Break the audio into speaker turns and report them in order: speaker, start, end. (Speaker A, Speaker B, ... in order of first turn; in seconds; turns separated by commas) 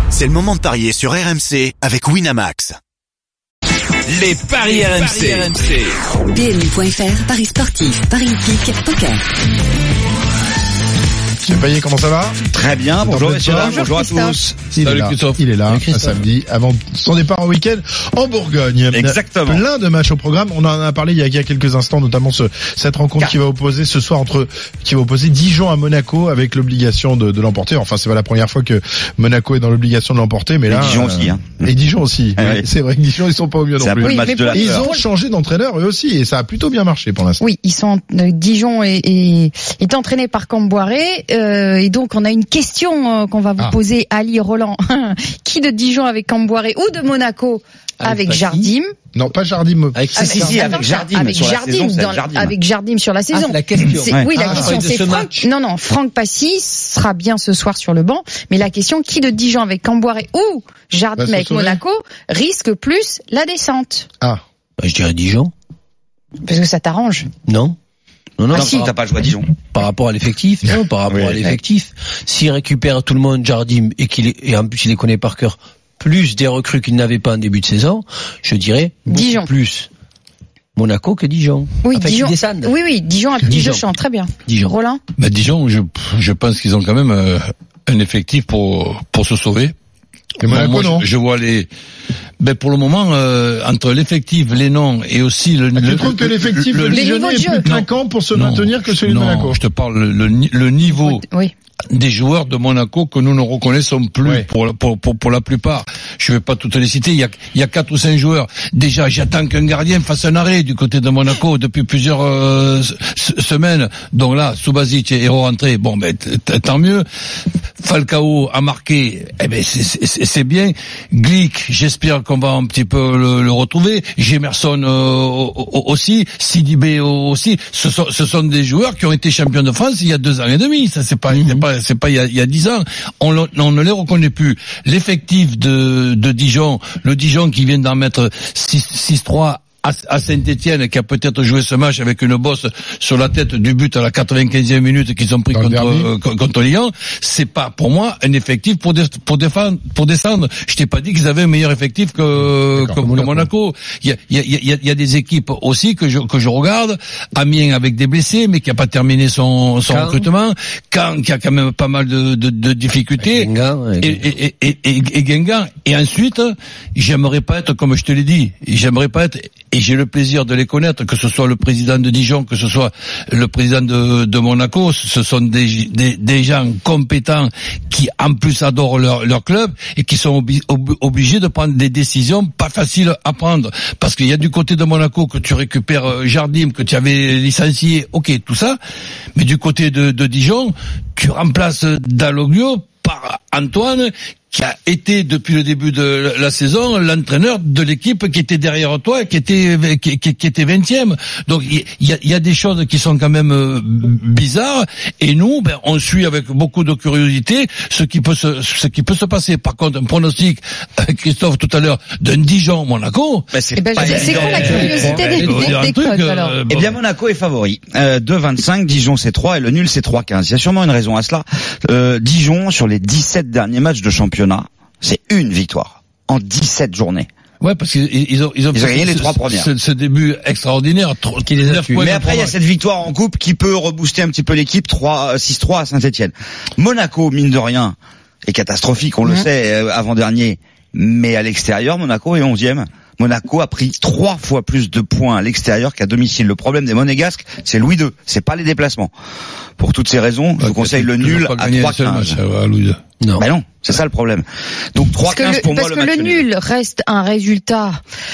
Speaker A: 0.1-2.8, Speaker B: 4.6-5.5, Speaker A: 5.2-5.5, Speaker B: 6.3-9.2, Speaker C: 11.4-12.4, Speaker D: 12.5-14.7, Speaker C: 13.0-13.8, Speaker E: 13.5-14.4, Speaker C: 14.7-37.4, Speaker F: 14.8-15.4, Speaker G: 15.7-16.2, Speaker D: 18.9-19.6, Speaker D: 30.7-31.7, Speaker D: 32.4-32.6, Speaker D: 33.8-34.9, Speaker E: 34.0-35.0, Speaker E: 37.4-48.9, Speaker G: 48.0-48.7, Speaker C: 49.1-50.0, Speaker G: 50.0-50.8, Speaker E: 50.1-64.1, Speaker D: 50.3-52.5, Speaker G: 53.3-55.5, Speaker C: 54.4-54.8, Speaker C: 61.2-61.8, Speaker G: 64.8-65.5, Speaker E: 66.5-67.3, Speaker G: 67.5-67.8, Speaker G: 68.4-79.9, Speaker E: 68.5-68.8, Speaker D: 68.5-69.5, Speaker D: 71.2-71.6, Speaker E: 79.1-79.5, Speaker G: 80.8-82.8, Speaker E: 81.8-85.0, Speaker G: 83.4-83.9, Speaker G: 84.5-84.8, Speaker F: 85.2-89.7, Speaker C: 90.4-91.1, Speaker F: 90.5-91.7, Speaker F: 92.4-97.1, Speaker C: 95.8-99.6, Speaker E: 96.9-97.7, Speaker F: 97.6-101.2, Speaker E: 100.9-101.5, Speaker F: 101.9-117.0, Speaker F: 117.8-188.8, Speaker G: 131.3-131.6, Speaker C: 145.5-146.1, Speaker G: 153.0-153.5, Speaker G: 159.9-160.3, Speaker G: 163.2-164.2, Speaker F: 189.4-213.5, Speaker D: 213.5-215.4, Speaker E: 213.8-216.6, Speaker F: 214.0-217.0, Speaker G: 214.6-215.7, Speaker D: 216.7-227.3, Speaker F: 227.6-232.6, Speaker D: 228.7-229.7, Speaker G: 231.5-232.1, Speaker D: 232.0-249.1, Speaker D: 249.8-252.4, Speaker F: 250.6-253.0, Speaker G: 253.2-253.5, Speaker D: 253.4-256.4, Speaker E: 255.3-258.0